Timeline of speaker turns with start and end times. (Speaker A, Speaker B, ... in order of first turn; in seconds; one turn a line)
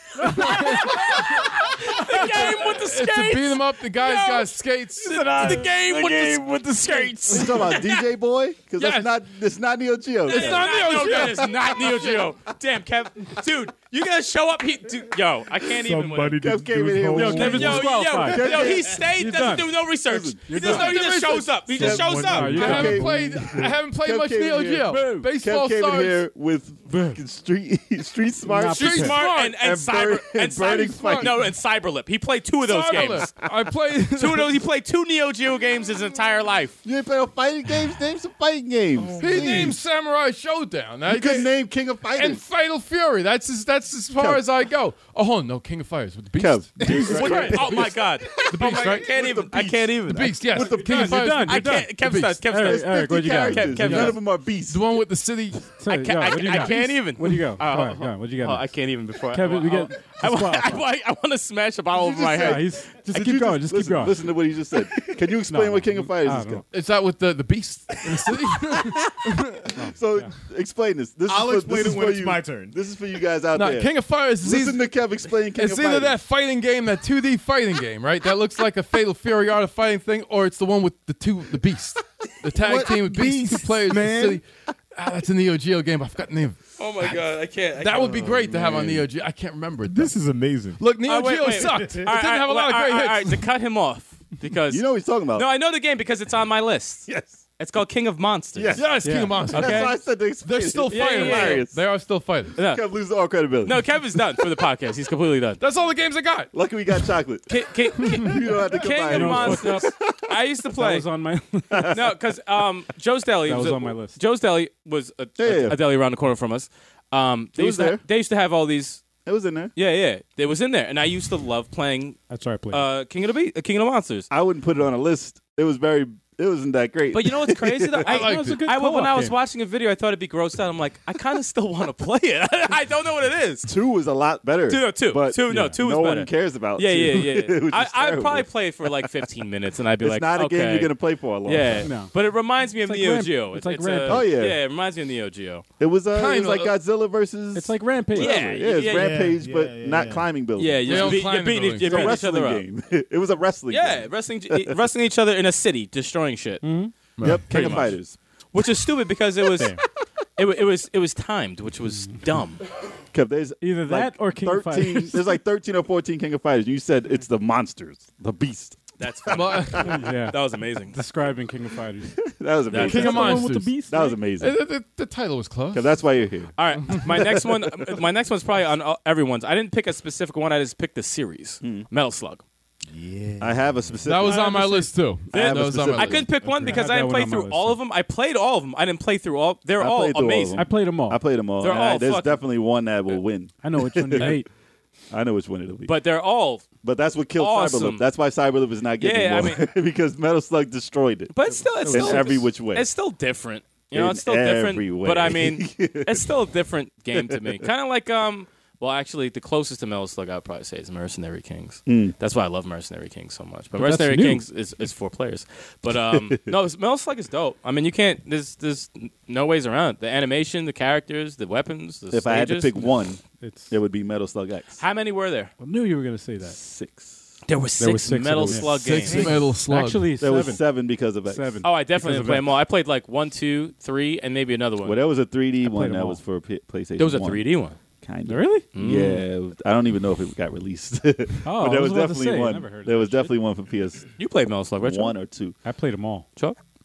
Speaker A: 0.2-2.7
Speaker B: 0.2-1.4
Speaker C: 0.3-8.1
Speaker B: 2.2-5.7
Speaker A: 5.0-7.8
Speaker D: 7.3-11.5
Speaker B: 8.8-9.1
Speaker C: 10.3-16.4
Speaker B: 10.3-12.2
Speaker E: 15.6-17.9
Speaker D: 16.4-19.1
Speaker A: 17.1-19.8
Speaker C: 17.2-22.9
Speaker D: 20.0-20.8
Speaker A: 20.5-21.0
Speaker B: 20.5-26.2
Speaker E: 21.8-23.7
Speaker D: 21.8-31.4
Speaker A: 22.2-23.2
Speaker A: 24.9-25.3
Speaker A: 28.4-29.2
Speaker C: 28.6-33.3
Speaker B: 28.7-29.6
Speaker B: 30.9-31.4
Speaker B: 32.6-34.6
Speaker C: 34.1-36.8
Speaker D: 36.8-39.8
Speaker E: 38.9-39.8
Speaker B: 39.2-49.1
Speaker D: 41.1-42.4
Speaker D: 44.2-44.4
Speaker D: 46.4-51.3
Speaker E: 46.8-47.5
Speaker A: 47.1-47.7
Speaker C: 47.1-54.2
Speaker B: 50.1-52.5
Speaker A: 50.7-54.2
Speaker D: 52.6-54.8
Speaker B: 53.9-55.7
Speaker A: 55.8-60.8
Speaker C: 55.9-62.9
Speaker D: 62.0-66.6
Speaker A: 62.4-64.4
Speaker A: 65.5-66.6
Speaker B: 66.7-69.7
Speaker D: 68.3-76.2
Speaker A: 69.8-70.3
Speaker E: 71.3-72.8
Speaker B: 73.5-90.2
Speaker E: 82.6-84.4
Speaker C: 86.8-88.4
Speaker D: 88.2-89.1
Speaker E: 89.8-90.8
Speaker B: 90.8-93.4
Speaker C: 91.0-100.0
Speaker D: 94.7-95.5
Speaker D: 97.1-97.4
Speaker D: 98.5-101.8
Speaker B: 98.8-102.6
Speaker A: 99.0-99.5
Speaker C: 100.9-101.7
Speaker C: 102.6-102.9
Speaker D: 102.6-104.6
Speaker C: 103.6-105.6
Speaker B: 105.6-106.5
Speaker D: 106.5-110.2
Speaker C: 107.5-111.1
Speaker A: 109.1-109.9
Speaker A: 110.8-112.0
Speaker D: 111.7-112.0
Speaker C: 111.8-119.1
Speaker A: 113.5-114.2
Speaker D: 115.4-115.8
Speaker D: 117.6-118.0
Speaker D: 119.2-119.7
Speaker C: 119.8-124.3
Speaker A: 122.3-122.9
Speaker D: 124.3-128.0
Speaker C: 127.1-133.7
Speaker B: 128.0-128.6
Speaker A: 128.0-129.4
Speaker D: 133.6-138.5
Speaker C: 134.7-145.7
Speaker D: 140.0-141.9
Speaker A: 141.8-142.1
Speaker A: 142.7-144.4
Speaker D: 144.1-144.6
Speaker D: 145.8-154.7
Speaker B: 146.1-146.8
Speaker A: 147.6-148.4
Speaker C: 148.1-149.3
Speaker E: 148.8-150.3
Speaker C: 150.6-152.7
Speaker B: 150.8-152.2
Speaker C: 153.7-158.0
Speaker A: 156.6-157.1
Speaker B: 157.2-158.0
Speaker D: 157.2-158.2
Speaker C: 158.5-159.8
Speaker C: 160.4-162.6
Speaker D: 163.1-170.0
Speaker A: 163.6-165.3
Speaker C: 169.0-171.0
Speaker B: 169.3-170.0
Speaker A: 169.9-170.4
Speaker A: 170.9-172.2
Speaker D: 172.1-174.6
Speaker C: 172.7-173.2
Speaker A: 172.7-174.2
Speaker B: 172.8-173.8
Speaker B: 174.3-176.0
Speaker D: 175.7-177.5
Speaker C: 176.6-182.4
Speaker D: 181.6-181.9
Speaker E: 182.9-184.4
Speaker D: 183.4-186.3
Speaker B: 184.1-186.3
Speaker C: 185.3-190.7
Speaker E: 186.4-186.8
Speaker A: 186.5-187.8
Speaker D: 189.8-194.4
Speaker A: 190.6-191.2
Speaker C: 191.6-192.5
Speaker A: 193.6-194.5
Speaker D: 195.1-196.0
Speaker C: 195.9-196.7
Speaker D: 196.8-201.3
Speaker C: 197.3-198.1
Speaker C: 199.0-199.7
Speaker C: 201.3-222.8
Speaker A: 201.8-202.5
Speaker D: 201.9-202.9
Speaker D: 203.9-206.3
Speaker D: 207.1-207.7
Speaker D: 211.9-212.2
Speaker A: 213.7-214.4
Speaker D: 222.1-224.8
Speaker A: 223.2-223.7
Speaker C: 224.8-225.5
Speaker A: 225.6-226.6
Speaker D: 226.4-227.3
Speaker C: 227.5-229.3
Speaker A: 227.8-230.7
Speaker B: 228.6-230.1
Speaker E: 229.1-229.5
Speaker D: 230.2-231.6
Speaker A: 231.2-232.6
Speaker C: 231.6-235.0
Speaker D: 234.8-237.5
Speaker A: 235.6-236.2
Speaker C: 237.0-237.8
Speaker D: 238.0-244.1
Speaker A: 238.3-238.8
Speaker C: 238.7-239.2
Speaker A: 241.4-243.4
Speaker C: 244.2-245.2
Speaker D: 244.8-245.6
Speaker A: 245.6-246.3